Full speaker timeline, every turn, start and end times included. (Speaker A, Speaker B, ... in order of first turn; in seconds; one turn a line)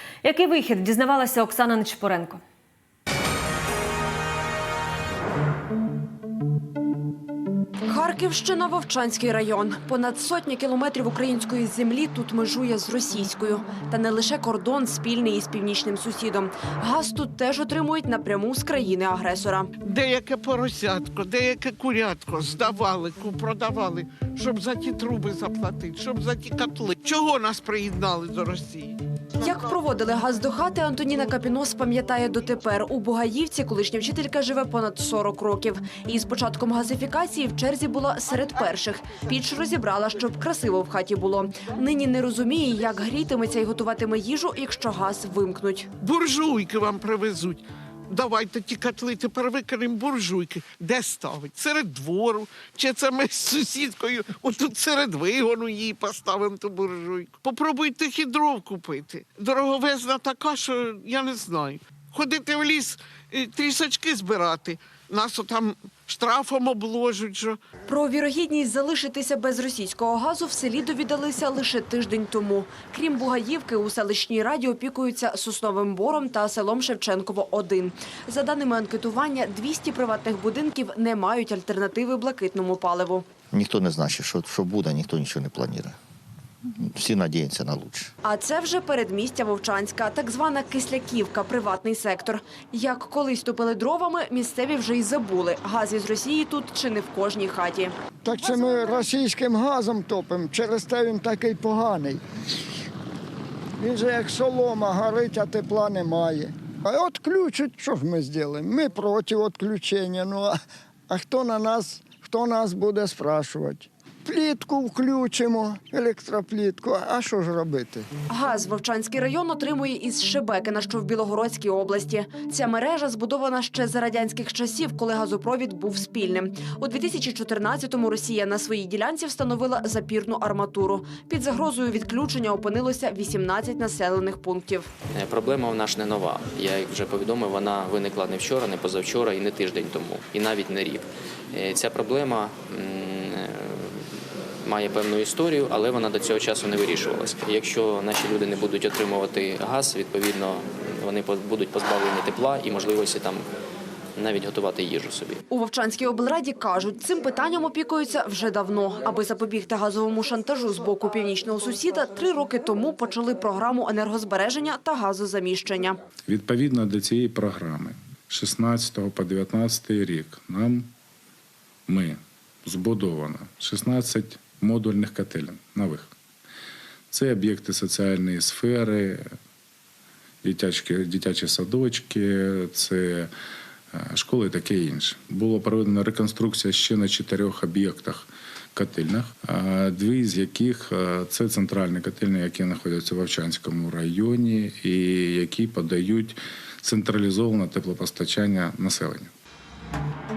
Speaker A: 0.2-2.4
Speaker B: 7.9-19.7
Speaker C: 19.8-29.7
Speaker B: 29.4-45.9
Speaker C: 46.0-67.6
Speaker B: 67.9-83.3
Speaker D: 83.5-86.0
Speaker D: 86.8-88.1
Speaker B: 88.2-97.9
Speaker E: 98.2-102.2
Speaker E: 103.8-118.1
Speaker B: 118.3-134.9
Speaker F: 135.1-143.9
Speaker F: 144.6-153.4
Speaker F: 154.2-155.4
Speaker B: 155.5-166.0
Speaker G: 166.3-170.9
Speaker G: 171.9-176.1
Speaker G: 177.1-179.2
Speaker G: 180.4-183.3
Speaker G: 183.9-199.3